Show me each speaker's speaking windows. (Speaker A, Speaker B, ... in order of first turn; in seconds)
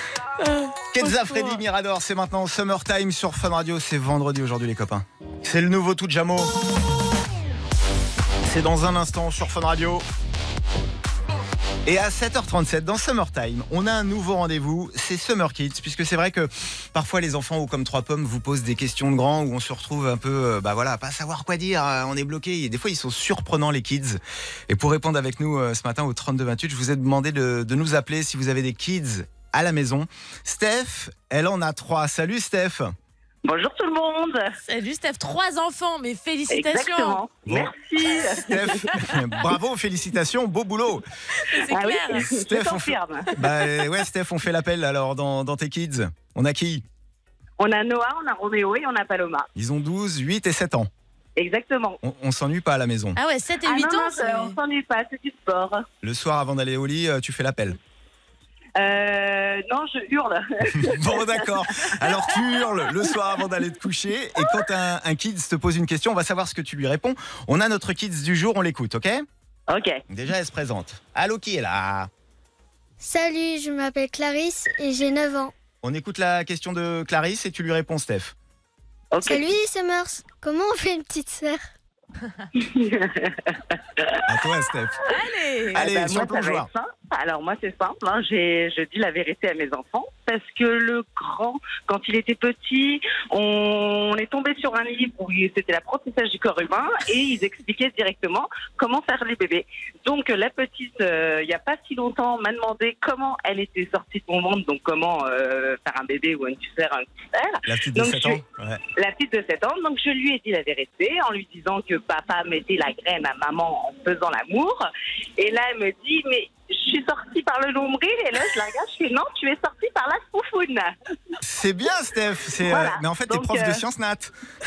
Speaker A: 0.4-1.6, 34.6-37.2, 41.3-42.3, 53.1-54.6, 85.1-85.8
Speaker B: 0.9-6.5, 8.4-10.1, 11.8-32.9, 37.5-41.0, 42.1-46.8, 49.5-50.9, 52.0-53.2, 56.0-57.8, 60.7-69.2, 70.1-72.1, 75.8-78.3, 84.3-85.0, 85.7-86.7, 107.7-108.8, 121.4-124.3
Speaker C: 33.4-34.5, 36.5-38.7, 41.7-43.3, 47.6-49.5, 51.4-52.0, 53.6-55.8, 58.8-61.5, 69.7-70.0, 79.1-79.5, 82.5-84.2, 85.8-108.4, 108.9-114.9, 115.4-120.9, 122.6-123.8
Speaker D: 73.0-75.5, 79.2-81.6